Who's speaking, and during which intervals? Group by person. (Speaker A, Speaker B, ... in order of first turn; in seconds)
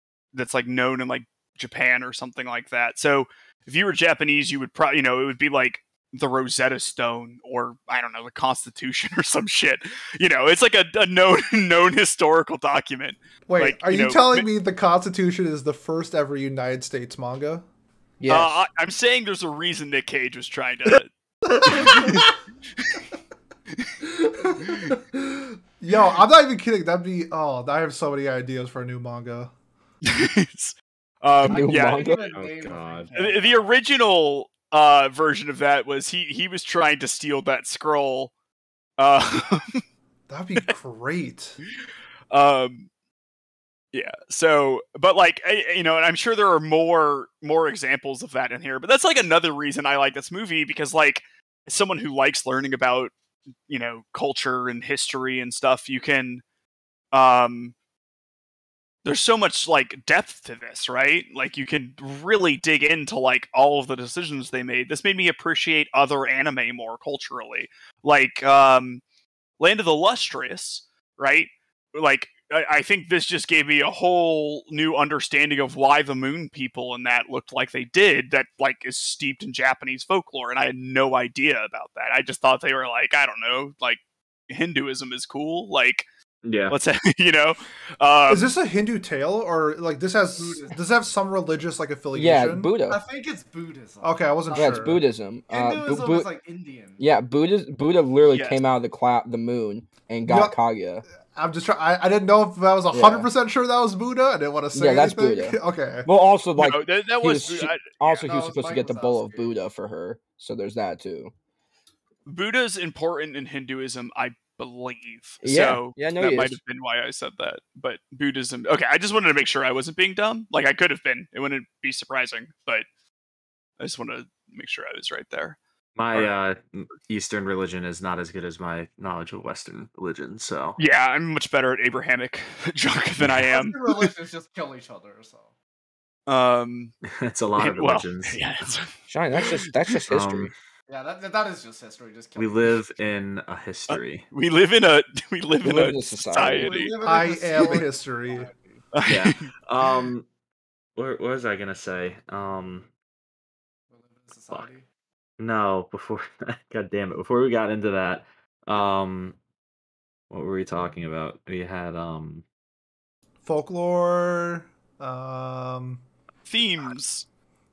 Speaker A: 0.3-14.4, 18.3-21.1, 21.6-22.3, 24.6-24.9, 30.0-32.1, 33.1-38.3, 39.0-39.8, 42.3-42.9, 43.9-53.1, 53.7-56.4, 57.1-57.7, 59.0-69.0, 69.6-86.0, 86.7-88.5, 98.2-98.6, 106.6-108.2, 112.2-122.8, 123.8-125.6, 130.8-134.1, 136.3-136.9, 137.6-140.0, 143.9-146.9, 148.9-149.5, 166.4-167.2
Speaker B: 13.5-17.6, 21.5-22.3, 24.0-29.5, 40.3-41.6, 88.3-92.7, 94.0-95.0, 100.2-100.5, 101.3-106.1, 147.0-148.5, 163.4-166.0
Speaker C: 18.2-18.6, 31.4-32.2, 92.1-93.0, 94.5-96.3, 97.0-101.0, 102.9-103.3, 104.7-111.3, 115.4-116.6, 139.1-140.5, 145.6-146.7
Speaker D: 31.4-33.7, 90.3-90.8, 92.9-97.0, 108.2-109.5, 133.3-135.5, 140.9-142.7, 146.4-148.9, 153.9-154.8
Speaker E: 32.3-33.1, 86.4-86.8, 126.0-130.8, 137.1-138.4, 140.1-140.5, 142.3-144.2, 149.0-150.3, 150.9-152.9, 155.4-159.4, 160.3-162.4